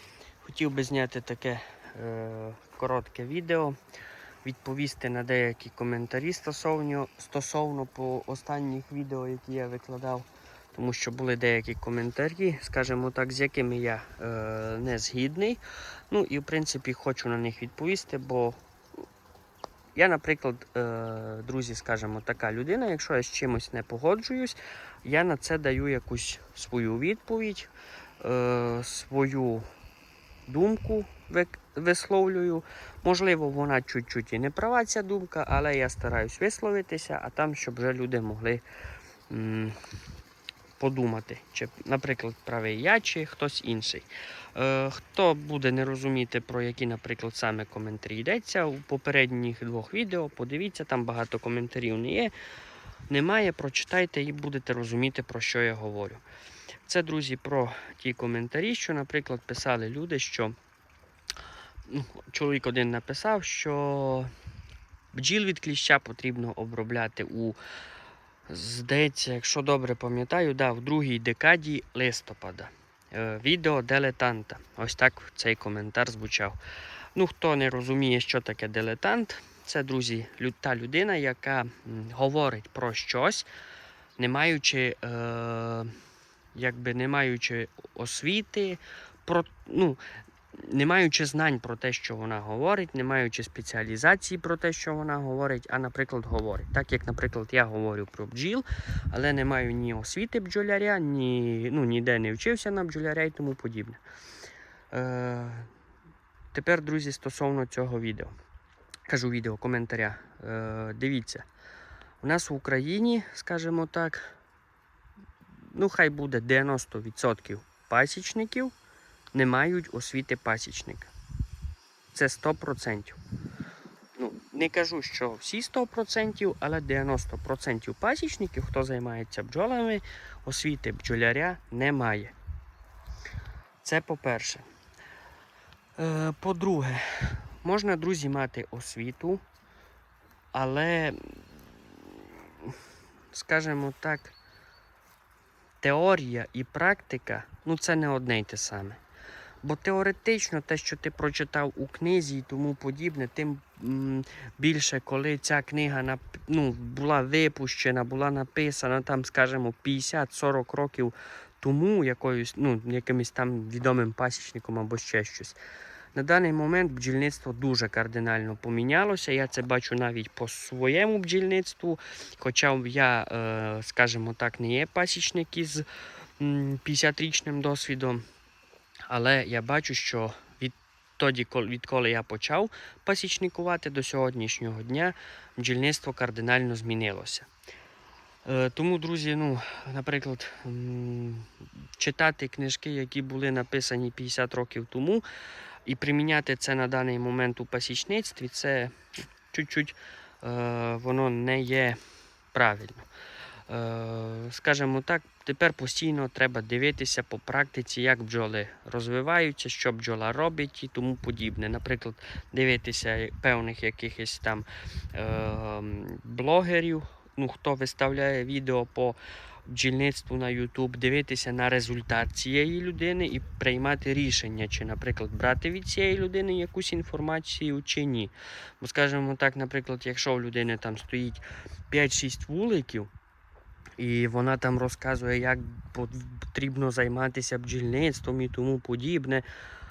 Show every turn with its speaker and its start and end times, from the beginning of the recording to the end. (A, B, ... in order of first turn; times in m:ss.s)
0:00.4-0:03.8 A
0:04.4-0:18.6 A
0:20.0-0:27.7 A
0:28.2-0:29.7 A
0:30.4-0:38.6 A
0:39.3-0:39.8 A
0:40.8-0:52.3 A
0:53.1-0:56.2 A
0:56.8-1:00.6 A
1:01.9-1:04.3 A
1:05.1-1:07.6 A
1:08.5-1:16.6 A
1:17.1-1:23.5 A
1:24.2-1:25.9 A
1:26.5-1:30.0 A
1:30.6-1:44.0 A
1:44.9-1:45.7 A
1:46.5-1:48.3 A
1:49.1-1:51.4 A
1:52.2-1:54.3 A
1:55.7-1:58.7 A
1:59.3-2:01.1 A
2:02.1-2:03.2 A
2:04.2-2:12.3 A
2:13.8-2:14.6 A
2:16.0-2:19.4 A
2:20.5-2:22.8 A
2:23.3-2:24.3 A
2:25.8-2:29.0 A
2:29.6-2:45.6 A
2:46.2-2:55.9 A
2:56.4-2:58.2 A
2:59.1-3:07.5 A
3:08.4-3:15.2 A
3:15.8-3:18.9 A
3:19.5-3:22.0 A
3:22.5-3:23.1 A
3:23.7-3:53.1 A
3:54.0-3:59.5 A